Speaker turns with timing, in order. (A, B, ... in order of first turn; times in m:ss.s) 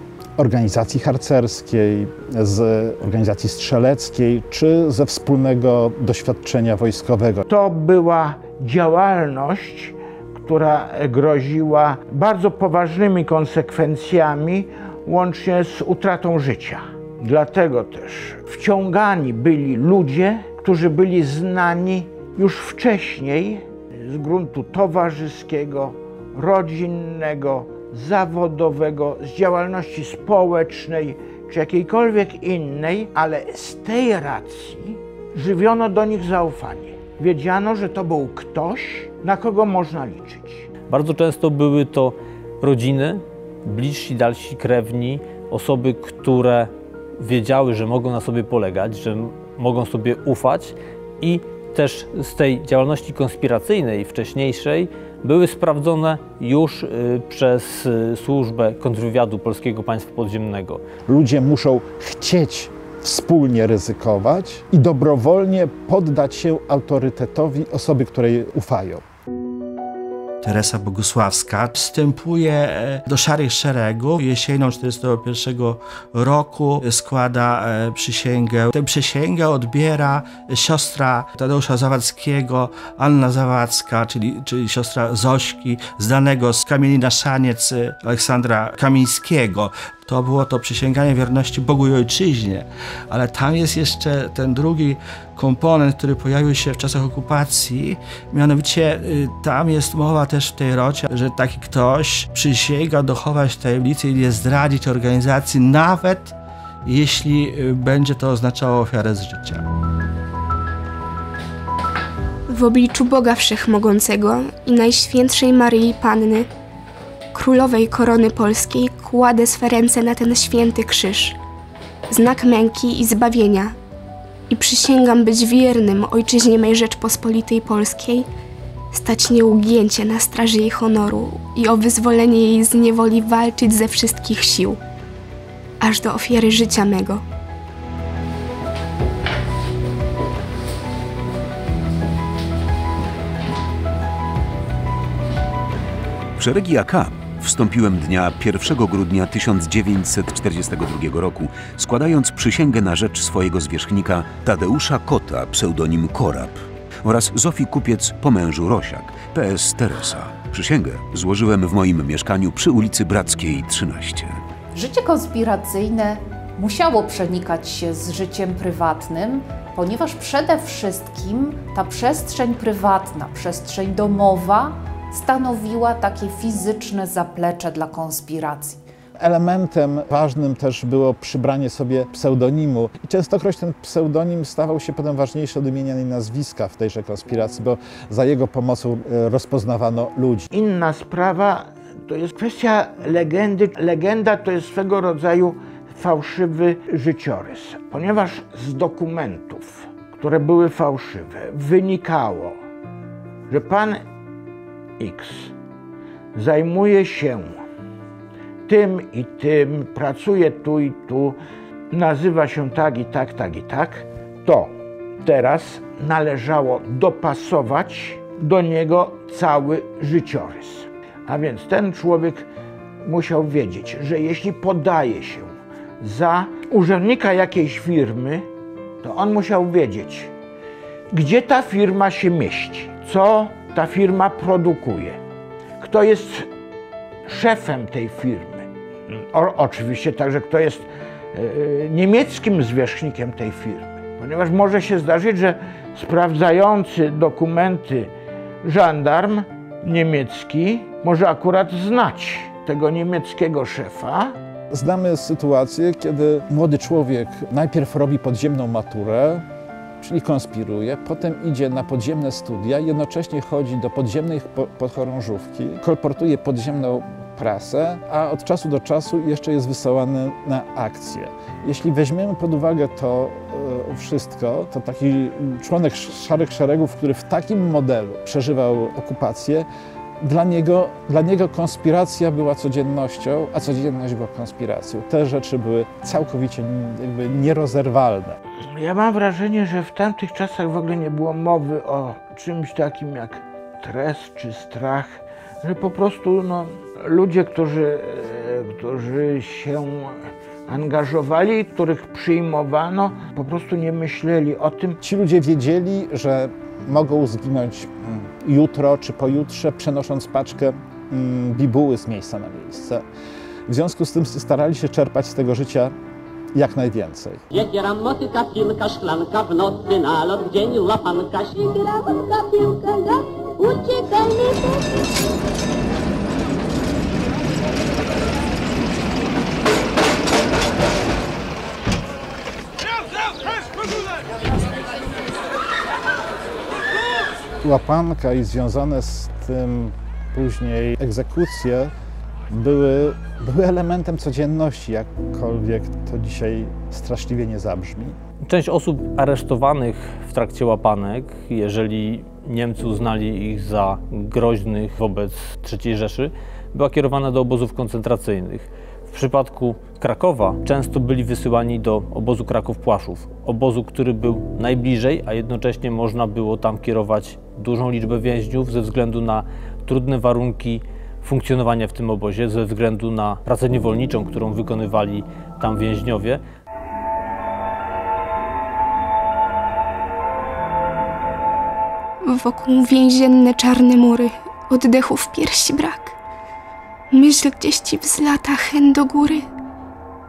0:00.4-0:07.5 A
0:07.5-0:40.7 B
0:40.9-1:00.8 C
1:01.1-1:09.0 A
1:10.4-1:49.6 D
1:52.5-1:56.5 E
1:57.3-2:01.4 E
2:02.1-2:03.8 E
2:04.5-2:08.3 E
2:08.9-2:14.8 E
2:15.8-2:17.2 E
2:26.4-2:44.4 F
2:44.7-2:58.8 G
2:59.2-3:10.5 A
3:10.5-3:22.6 B
3:23.5-3:24.0 B
3:25.0-3:25.5 B
3:26.3-3:27.6 B
3:28.7-3:31.4 B
3:31.9-3:42.5 B
3:43.0-3:48.5 B
3:49.0-3:50.3 B
3:51.1-3:55.2 B
3:55.8-3:56.5 B
3:57.3-4:08.1 B
4:08.6-4:14.4 B
4:14.7-4:19.5 A
4:20.0-4:39.7 A
4:40.2-4:48.4 A
4:48.7-5:05.0 B
5:05.0-5:13.0 A
5:13.7-5:16.0 A
5:16.5-5:17.4 A
5:17.5-5:24.8 H
5:37.6-5:41.9 A
5:42.5-5:48.2 A
5:48.5-6:16.4 C
6:22.2-6:26.2 E
6:27.1-6:29.4 E